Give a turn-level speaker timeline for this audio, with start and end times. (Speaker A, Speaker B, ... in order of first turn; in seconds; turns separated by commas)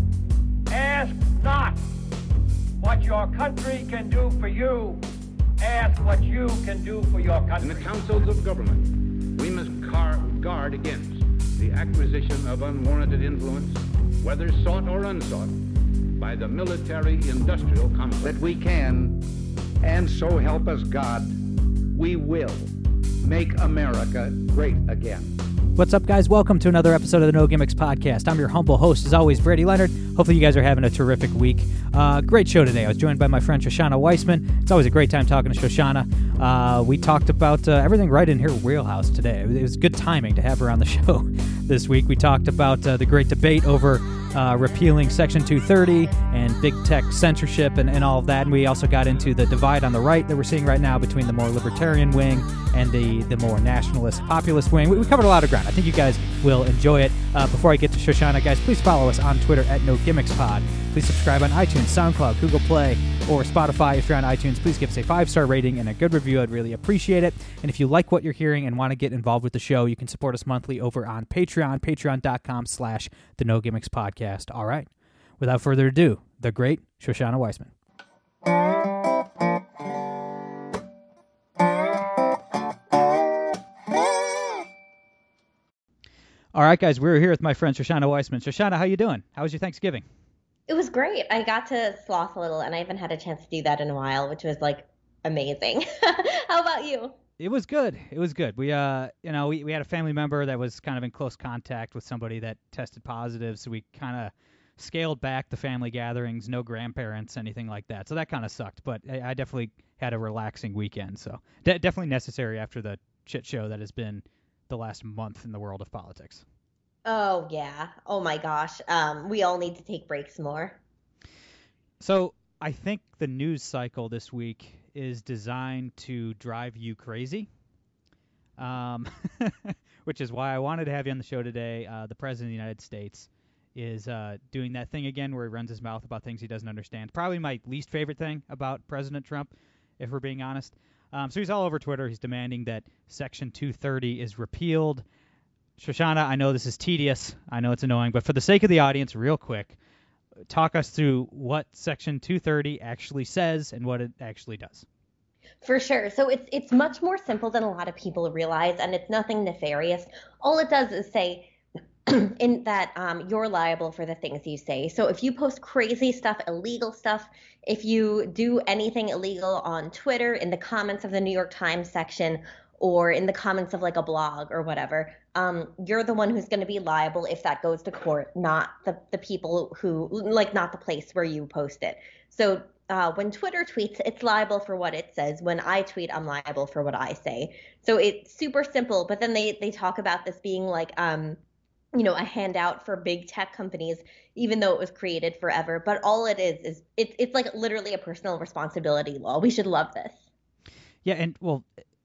Speaker A: 0.7-1.8, Speaker A: 2.8-5.0, Speaker A: 5.6-7.9, Speaker B: 7.6-18.6, Speaker C: 18.2-19.2, Speaker C: 19.8-22.7, Speaker C: 23.2-25.4, Speaker D: 25.8-77.7, Speaker D: 86.5-90.0, Speaker E: 90.7-97.1, Speaker D: 97.4-116.4, Speaker E: 117.1-120.8, Speaker D: 122.0-127.5, Speaker D: 128.6-145.0, Speaker D: 145.8-149.8, Speaker D: 150.5-154.8, Speaker E: 155.6-161.5, Speaker E: 162.1-191.4, Speaker E: 191.9-200.2, Speaker D: 201.0-201.7